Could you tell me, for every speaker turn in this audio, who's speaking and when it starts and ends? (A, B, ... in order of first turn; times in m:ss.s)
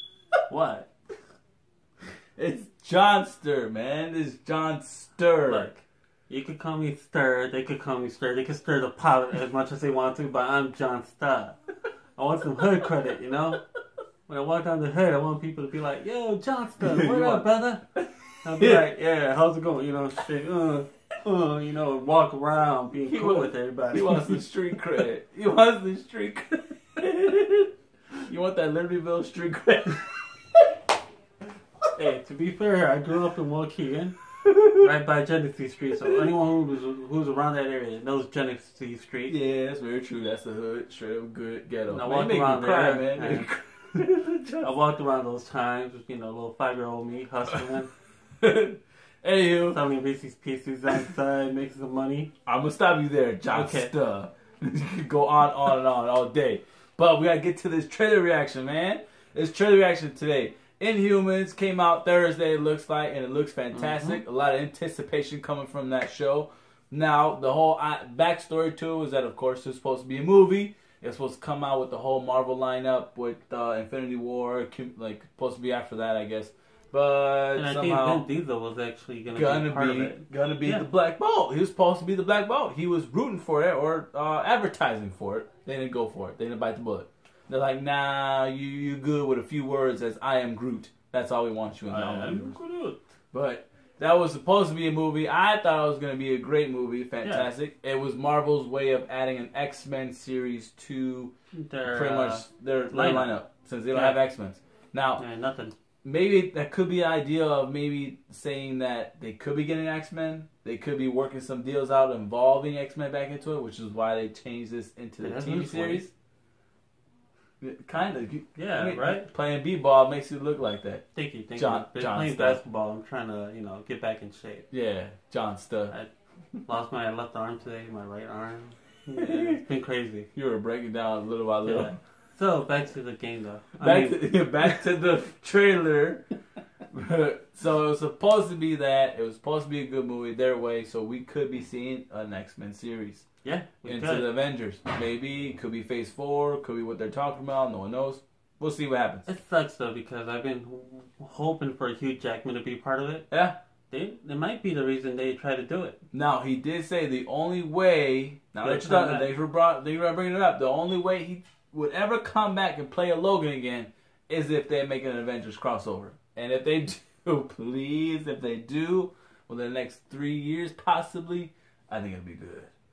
0:00.5-0:00.9 A
0:02.4-0:05.7 B
0:05.5-0:11.6 A
0:12.2-0:13.6 A
0:14.3-0:17.9 A
0:16.8-0:17.4 B
0:18.4-0:24.4 A
0:23.1-0:27.7 B
0:28.3-0:30.8 B
0:32.0-0:34.2 A
0:34.4-0:34.9 B
0:34.8-0:39.4 A
0:39.3-0:44.7 B
0:41.9-0:43.5 A
0:44.6-0:47.9 A
0:48.4-0:49.8 B
0:49.7-0:52.3 A
0:52.5-1:18.2 B
0:53.5-0:53.9 A
1:03.7-1:04.2 A
1:17.6-1:20.9 A
1:19.3-1:32.6 B
1:31.9-1:33.0 A
1:33.3-1:41.3 B
1:41.6-1:43.4 A
1:41.9-1:45.2 B
1:43.9-1:44.2 A
1:45.2-1:45.8 A
1:46.0-1:56.1 B
1:55.2-1:56.1 A
1:57.6-2:01.0 B
1:58.6-1:59.3 A
2:01.1-2:04.7 A
2:01.6-2:02.6 B
2:04.7-2:05.9 B
2:06.7-2:10.3 A
2:09.2-2:09.6 B
2:10.4-2:12.0 B
2:11.6-2:14.6 A
2:13.8-2:16.2 B
2:16.9-2:23.3 B
2:23.4-2:24.3 A
2:23.8-2:29.3 B
2:29.3-2:33.3 A
2:33.3-2:33.6 B
2:33.9-2:36.0 A
2:36.1-2:52.7 B
2:38.6-2:39.3 A